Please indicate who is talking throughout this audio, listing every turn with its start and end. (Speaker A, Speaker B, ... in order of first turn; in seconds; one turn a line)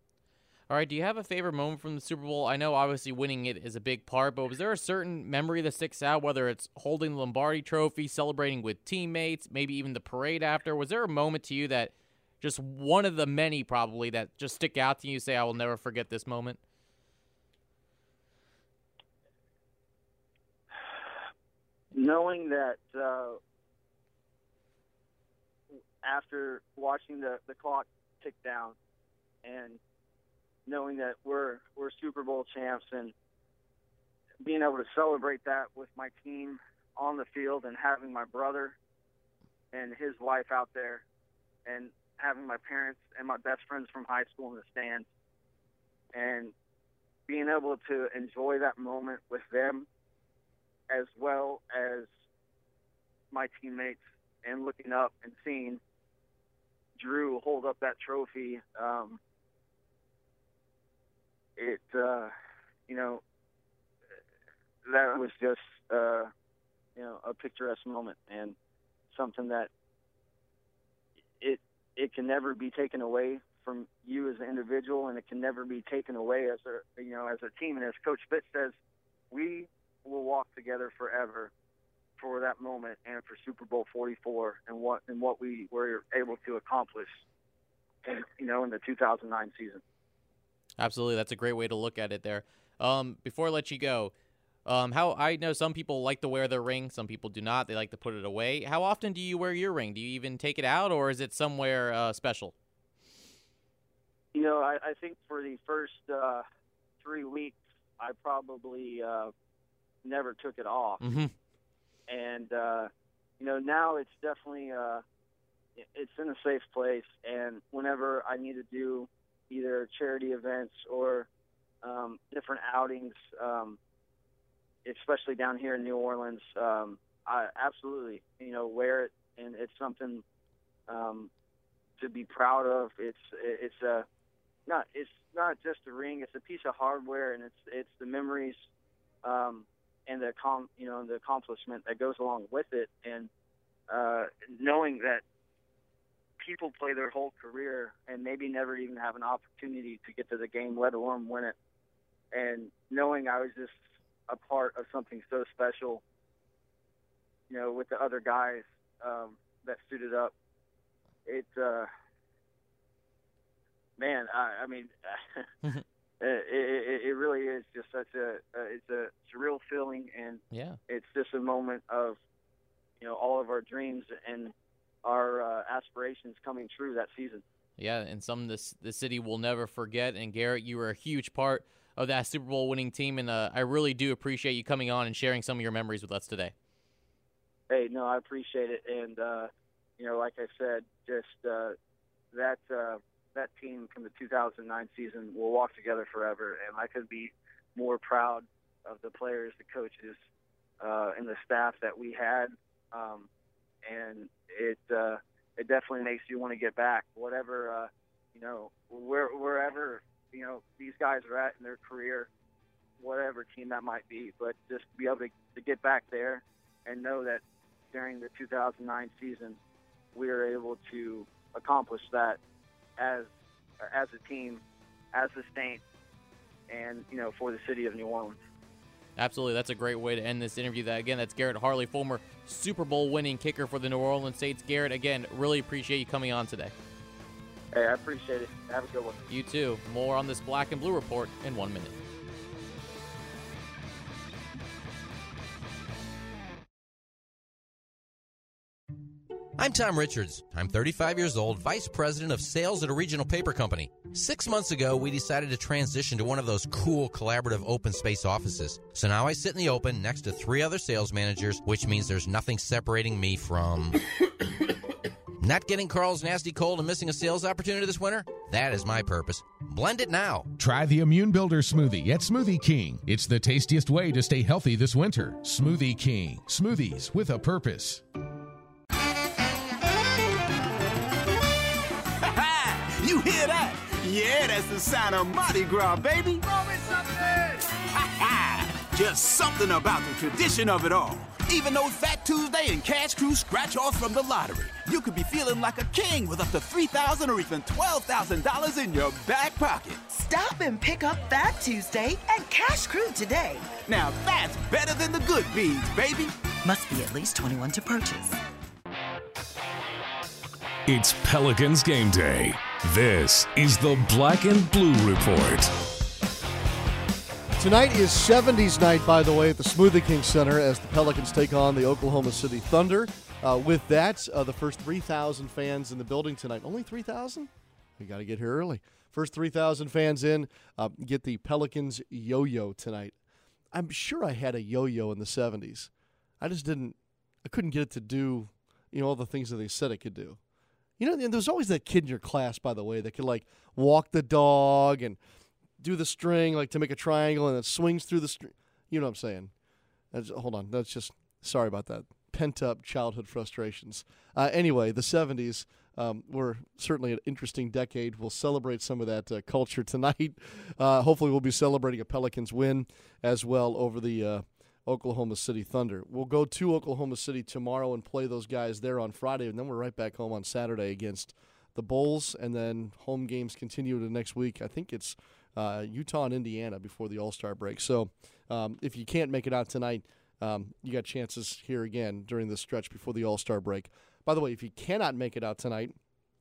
Speaker A: 0.7-16.6
Speaker B: 21.9-23.4
Speaker B: 26.0-28.8
Speaker B: 29.4-29.8
Speaker B: 30.7-33.1
Speaker B: 34.4-38.8
Speaker B: 39.7-41.0
Speaker B: 41.7-45.1
Speaker B: 46.1-46.5
Speaker B: 47.3-49.9
Speaker B: 50.9-52.1
Speaker B: 53.3-55.8
Speaker B: 57.0-59.2
Speaker B: 61.6-62.3
Speaker B: 62.9-63.2
Speaker B: 64.8-66.3
Speaker B: 67.0-68.5
Speaker B: 69.1-69.7
Speaker B: 71.4-78.7
Speaker B: 79.3-81.5
Speaker B: 82.2-87.2
Speaker B: 88.0-89.8
Speaker A: 90.8-94.1
Speaker A: 94.7-102.5
Speaker B: 104.3-106.4
Speaker B: 107.0-109.3
Speaker B: 110.0-111.0
Speaker A: 111.0-111.3
Speaker B: 112.1-115.0
Speaker B: 115.8-121.3
Speaker B: 121.8-123.8
Speaker B: 124.8-130.2
Speaker B: 130.9-131.3
Speaker B: 132.0-134.1
Speaker B: 134.7-138.7
Speaker B: 139.2-143.3
Speaker B: 143.9-145.2
Speaker B: 146.4-151.6
Speaker B: 152.3-156.0
Speaker B: 157.5-160.3
Speaker B: 161.3-161.9
Speaker B: 164.0-165.4
Speaker B: 166.2-172.2
Speaker A: 170.5-170.8
Speaker B: 173.0-174.5
Speaker B: 175.0-177.4
Speaker A: 177.8-186.5
Speaker B: 187.7-191.8
Speaker B: 192.3-200.2
Speaker B: 200.8-203.3
Speaker B: 203.8-212.3
Speaker B: 213.0-219.6
Speaker B: 220.2-222.4
Speaker B: 223.0-223.3
Speaker B: 223.8-224.6
Speaker B: 225.1-225.8
Speaker B: 226.7-228.4
Speaker A: 229.2-236.7
Speaker B: 237.7-239.2
Speaker A: 239.3-242.0
Speaker C: 249.6-264.0
Speaker C: 265.4-270.5
Speaker D: 270.5-278.0
Speaker E: 282.2-300.1
Speaker F: 300.1-303.8
Speaker E: 303.9-306.4
Speaker F: 306.6-308.4
Speaker G: 310.9-315.7
Speaker H: 317.6-333.2
Speaker H: 333.7-340.4
Speaker H: 341.0-345.2
Speaker H: 345.8-349.5
Speaker H: 350.1-386.0